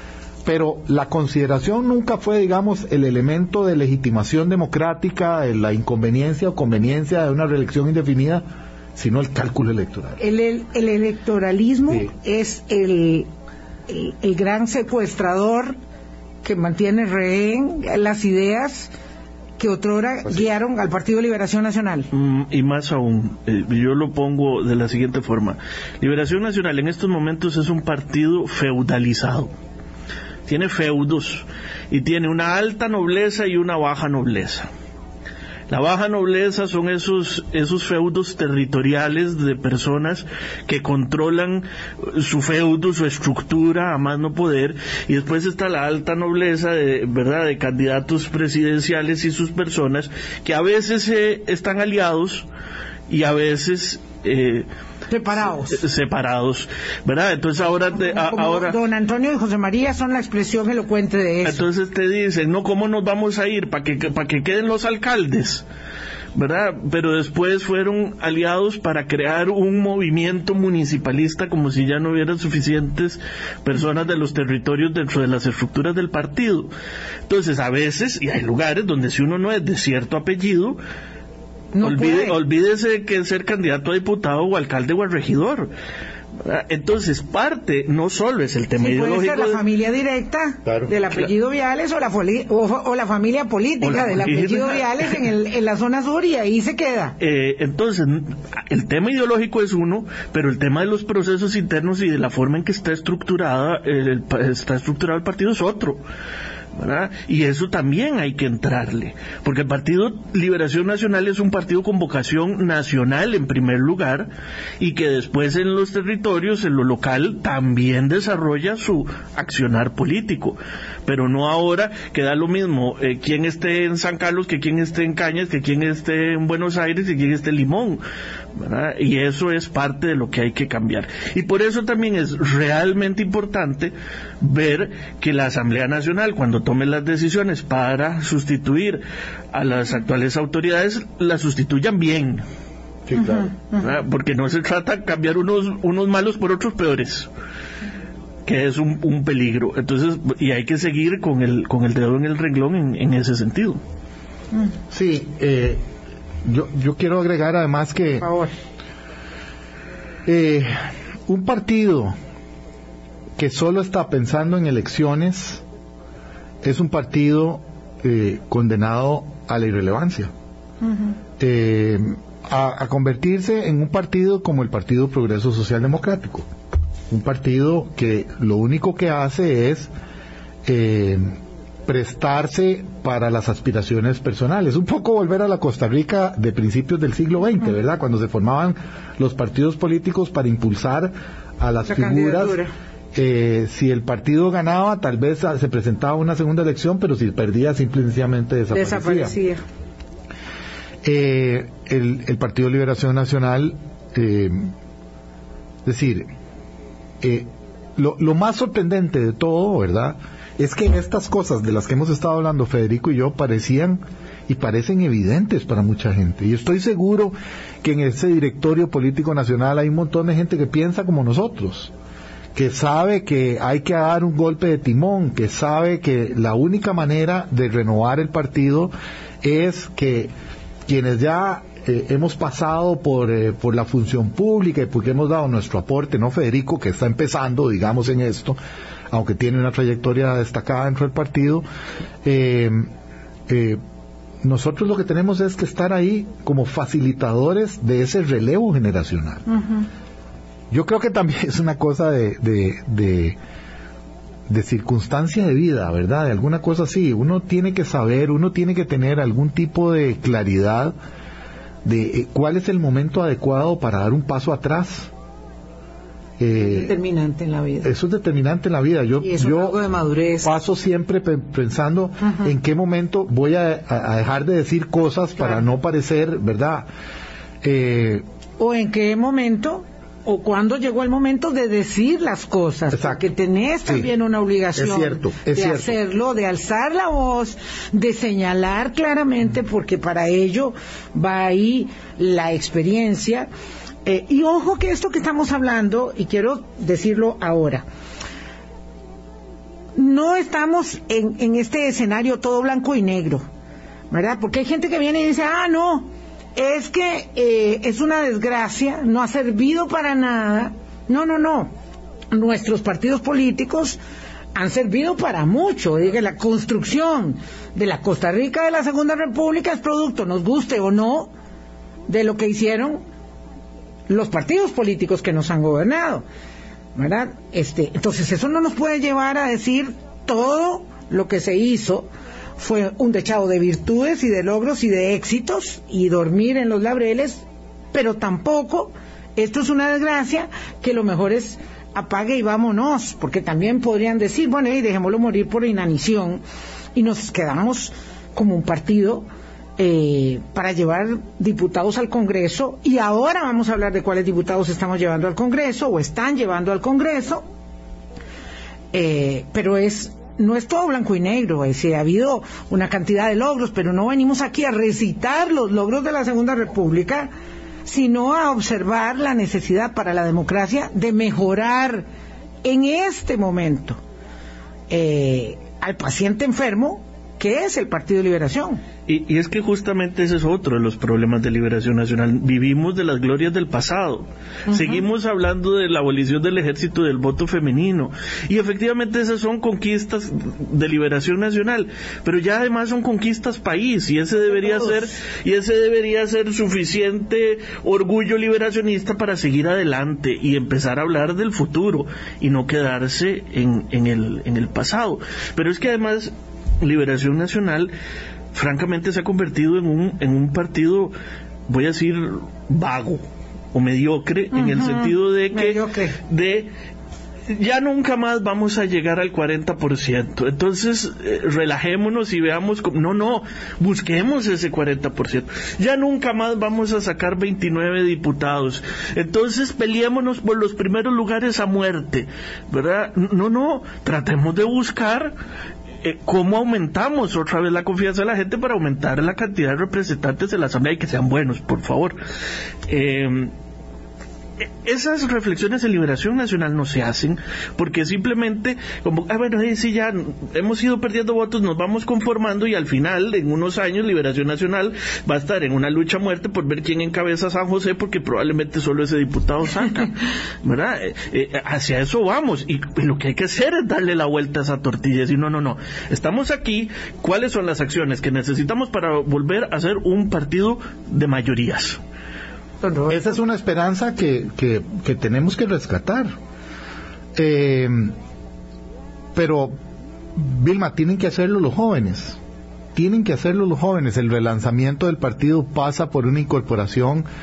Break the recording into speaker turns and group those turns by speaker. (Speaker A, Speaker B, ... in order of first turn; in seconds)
Speaker A: 0.5-8.4, 9.0-10.2, 90.7-90.9, 143.1-143.5, 154.9-155.8, 156.4-158.3, 160.3-160.8, 161.3-162.1, 163.4-165.6, 166.6-170.3, 171.4-176.5, 177.1-179.9, 180.7-181.3, 181.9-192.6, 193.2-199.3, 201.0-204.7, 205.9-206.3, 207.2-221.9, 222.6-228.9, 229.4-230.3, 230.9-238.6, 239.1-241.7, 242.2-242.9, 243.5-243.8, 244.4-249.5, 250.7-253.4, 254.5-260.9, 261.9-265.1, 266.4-266.9, 267.8-269.8, 270.4-276.9, 277.6-278.2, 282.9-283.2, 284.8-286.0, 473.1-476.3, 477.4-478.1, 479.4-479.8, 480.4-482.4, 482.9-487.3
Speaker B: 10.2-13.3, 13.9-15.8, 16.4-18.9, 19.6-22.1, 55.1-55.8, 57.8-61.6, 81.7-82.4, 88.8-97.2, 158.2-158.5, 191.9-192.7, 198.7-199.6, 266.7-267.9, 269.2-270.5, 278.6-293.5, 294.1-297.8, 300.0-303.4, 304.1-311.7, 312.3-314.0, 314.6-321.3, 322.1-323.0, 324.1-326.2, 326.9-346.4, 346.9-349.3, 349.8-357.4, 358.9-367.3, 367.9-372.1, 372.6-374.0, 374.9-378.8, 414.6-416.2, 472.8-473.2
Speaker C: 22.1-29.5, 30.5-34.7, 35.7-52.5, 53.1-54.7, 55.4-58.8, 61.4-65.7, 66.3-76.7, 77.3-80.8, 81.8-85.7, 86.4-89.6, 93.8-94.8, 97.2-106.0, 106.8-128.0, 128.6-142.4, 143.8-147.3, 148.5-153.8, 379.1-407.9, 408.5-411.1, 411.7-416.7, 417.5-435.3, 436.0-442.2, 442.9-443.5, 444.6-472.0